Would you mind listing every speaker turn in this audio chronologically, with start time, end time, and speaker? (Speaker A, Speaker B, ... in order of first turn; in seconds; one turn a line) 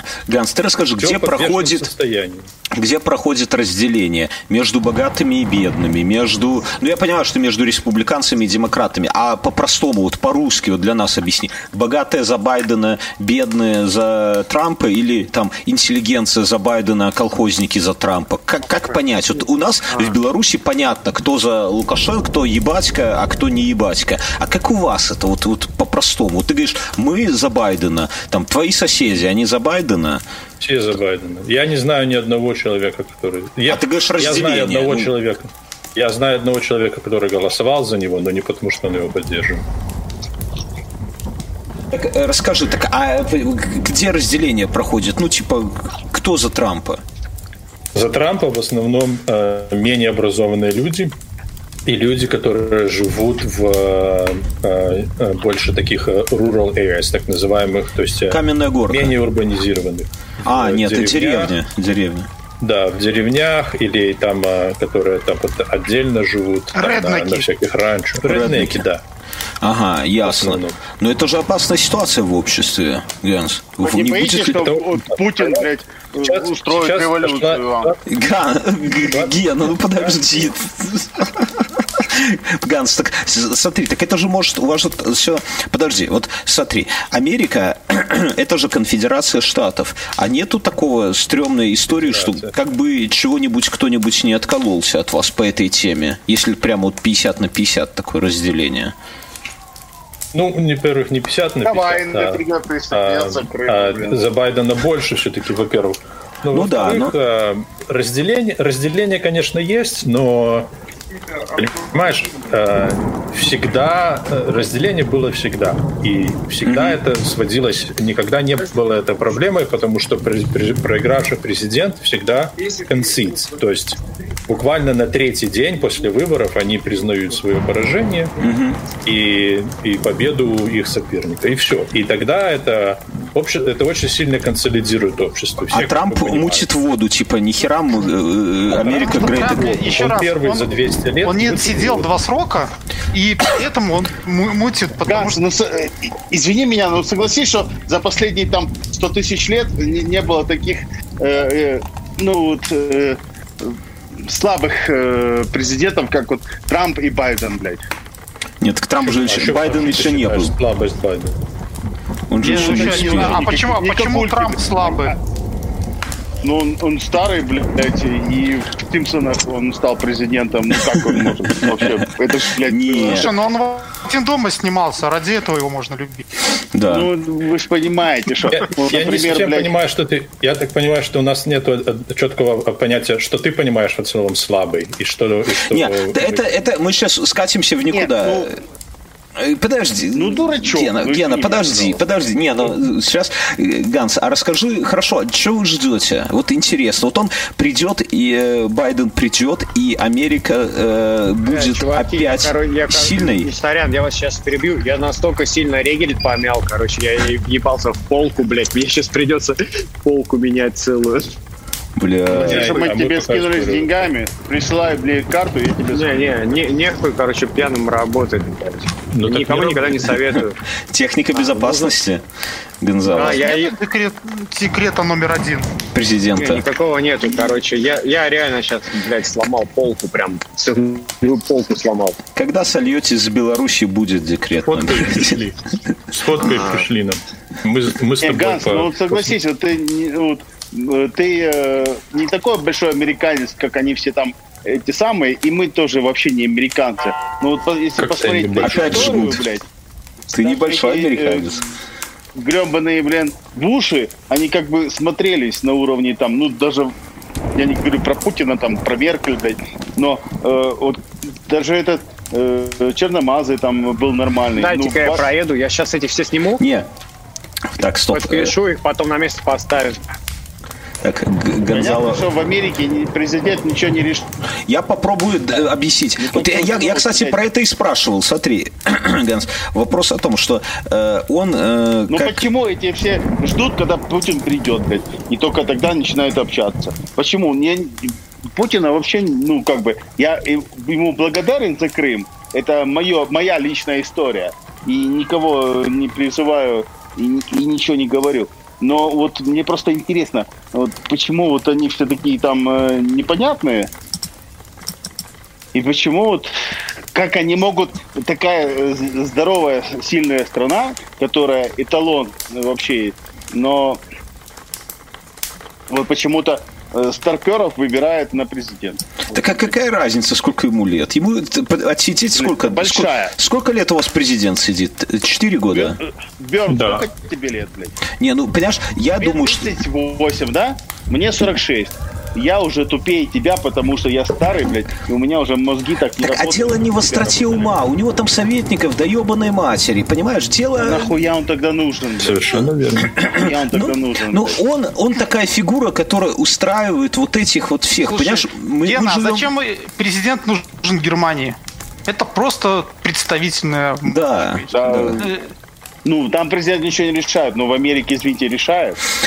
Speaker A: 0.3-1.9
Speaker B: 1.0-2.5
Speaker A: 2.7-30.2
Speaker B: 30.6-39.6
Speaker A: 33.7-35.1
Speaker A: 41.9-47.0
Speaker B: 47.9-51.1
Speaker B: 51.9-61.5
Speaker A: 58.3-59.2
Speaker A: 60.4-62.3
Speaker B: 62.6-69.0
Speaker C: 66.7-67.5
Speaker A: 68.2-68.8
Speaker A: 69.6-74.7
Speaker B: 70.2-70.8
Speaker D: 73.8-78.0
Speaker B: 74.3-75.7
Speaker B: 76.2-78.0
Speaker A: 78.1-99.0
Speaker B: 79.0-79.5
Speaker B: 80.1-80.3
Speaker B: 91.9-92.5
Speaker B: 100.3-110.7
Speaker D: 101.7-104.2
Speaker A: 106.5-107.2
Speaker B: 111.5-128.3
Speaker A: 116.6-117.0
Speaker A: 128.4-128.8
Speaker B: 129.1-136.7
Speaker A: 135.7-139.8
Speaker D: 138.8-139.3
Speaker C: 138.8-145.4
Speaker B: 139.9-142.1
Speaker D: 145.1-157.8
Speaker A: 158.6-160.5
Speaker B: 159.0-161.4
Speaker A: 162.3-163.4
Speaker C: 162.4-165.2
Speaker D: 162.4-165.2
Speaker D: 166.4-173.3
Speaker A: 171.6-172.0
Speaker A: 172.6-173.3
Speaker C: 173.1-176.2
Speaker A: 176.7-177.1
Speaker D: 176.9-179.7
Speaker B: 178.5-186.4
Speaker A: 185.7-188.6
Speaker D: 187.9-188.5
Speaker A: 189.4-203.5
Speaker D: 190.1-192.0
Speaker E: 201.4-211.4
Speaker A: 211.9-212.8
Speaker D: 212.3-216.2
Speaker B: 212.3-213.9
Speaker E: 215.9-220.6
Speaker B: 219.1-220.2
Speaker A: 220.9-222.2
Speaker E: 221.3-221.9
Speaker A: 222.8-223.5
Speaker E: 223.1-223.8
Speaker C: 223.2-225.7
Speaker A: 225.9-226.7
Speaker E: 226.4-232.2
Speaker A: 232.3-235.4
Speaker B: 234.6-235.6
Speaker B: 236.1-239.4
Speaker E: 236.5-236.8
Speaker D: 238.2-249.7
Speaker B: 248.0-249.4
Speaker A: 248.6-249.4
Speaker A: 250.3-251.7
Speaker D: 250.4-251.7
Speaker D: 252.4-256.9
Speaker D: 257.6-265.3
Speaker E: 264.6-266.6
Speaker A: 266.6-266.9
Speaker A: 267.8-268.6
Speaker E: 268.1-270.0
Speaker A: 271.0-272.2
Speaker D: 271.7-274.3
Speaker A: 274.7-282.4
Speaker D: 276.2-277.4
Speaker D: 282.1-303.9
Speaker D: 305.7-306.5
Speaker D: 307.1-314.0
Speaker D: 315.9-319.1
Speaker A: 319.3-326.0
Speaker D: 322.4-323.3
Speaker D: 325.7-328.0
Speaker B: 326.7-327.1
Speaker A: 328.2-329.7
Speaker D: 329.2-337.4
Speaker A: 336.2-341.1
Speaker B: 337.3-337.6
Speaker D: 340.8-342.6
Speaker B: 342.2-343.1
Speaker D: 343.2-344.6
Speaker A: 343.2-349.5
Speaker C: 348.1-351.6
Speaker C: 352.1-354.6
Speaker A: 354.1-355.2
Speaker D: 354.7-355.3
Speaker C: 355.2-355.5
Speaker D: 356.1-359.0